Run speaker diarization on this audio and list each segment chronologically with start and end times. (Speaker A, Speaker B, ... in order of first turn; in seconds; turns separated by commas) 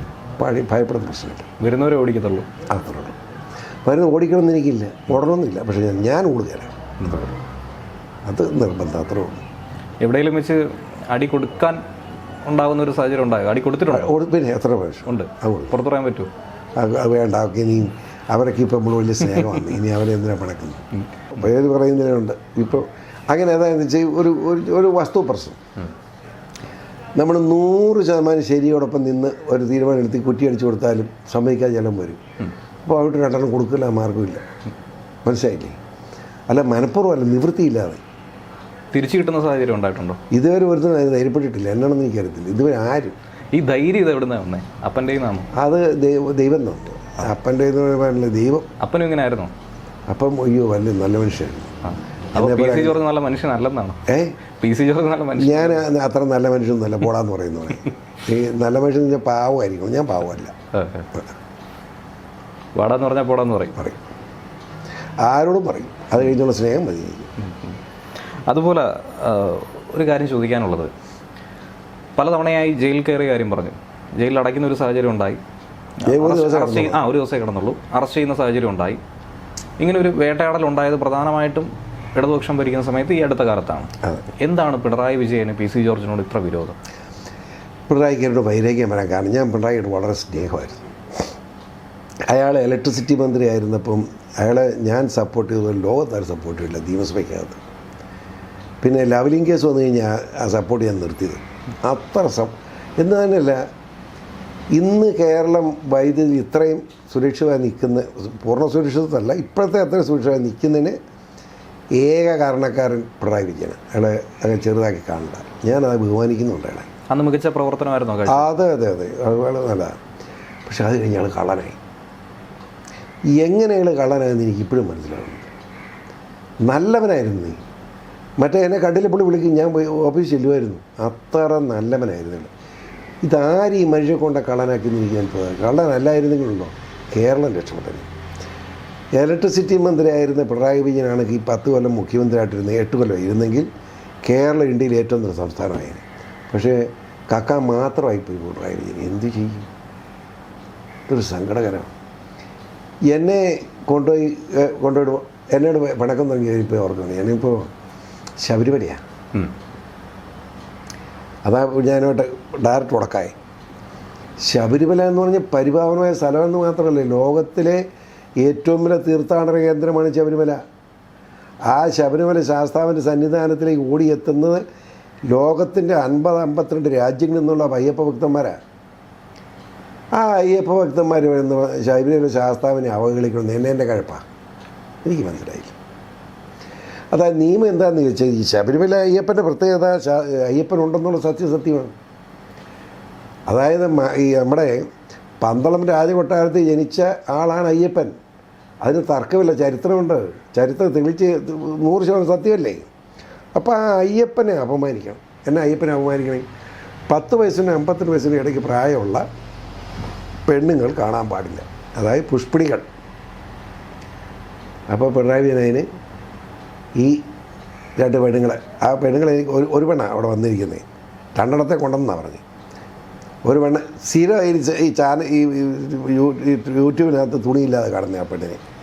Speaker A: 0.4-1.5, Speaker B: 1.6-2.5, Speaker A: 2.7-3.2, Speaker A: 3.8-7.2, Speaker B: 7.0-7.3, Speaker A: 8.2-9.4, Speaker B: 10.0-11.8, Speaker B: 12.4-14.1, Speaker A: 13.9-15.7, Speaker B: 15.1-16.3, Speaker A: 16.8-25.6, Speaker A: 27.2-32.2, Speaker A: 32.9-34.4, Speaker A: 35.2-35.8, Speaker A: 36.5-38.0, Speaker B: 38.9-40.2, Speaker A: 40.3-43.1, Speaker B: 43.5-45.5, Speaker A: 45.5-48.7, Speaker B: 48.8-49.5, Speaker A: 50.1-51.7, Speaker B: 51.8-54.0, Speaker A: 52.3-53.0, Speaker A: 54.1-54.4, Speaker B: 54.6-55.8, Speaker A: 55.4-60.5, Speaker B: 60.7-61.1, Speaker B: 62.7-63.8, Speaker A: 65.2-67.3, Speaker B: 67.4-67.7, Speaker B: 68.4-70.9, Speaker B: 72.2-75.4, Speaker B: 76.0-79.0, Speaker A: 76.0-77.0, Speaker B: 79.8-86.8, Speaker A: 87.9-90.8, Speaker A: 92.3-97.6, Speaker A: 98.8-103.6, Speaker A: 104.7-111.0, Speaker A: 111.9-116.9, Speaker B: 117.1-118.5, Speaker A: 118.2-120.0, Speaker A: 120.7-121.8, Speaker A: 123.3-125.5, Speaker A: 126.6-127.6, Speaker A: 128.4-132.5, Speaker A: 133.2-138.1, Speaker A: 139.2-143.7, Speaker A: 144.2-149.7, Speaker A: 151.1-151.9, Speaker A: 153.1-157.7, Speaker A: 158.4-159.0, Speaker A: 161.4-163.3, Speaker A: 164.4-167.8, Speaker A: 168.4-170.6, Speaker A: 171.7-174.6, Speaker A: 175.3-178.6, Speaker A: 180.1-184.2, Speaker A: 185.0-185.8, Speaker A: 187.1-191.9, Speaker A: 193.5-194.9, Speaker A: 195.4-198.1, Speaker A: 198.8-202.8, Speaker A: 203.5-206.4, Speaker A: 207.1-209.2, Speaker A: 210.4-212.9, Speaker A: 214.9-215.8, Speaker A: 216.9-217.2, Speaker A: 218.0-220.8, Speaker A: 221.3-222.4, Speaker A: 223.4-228.6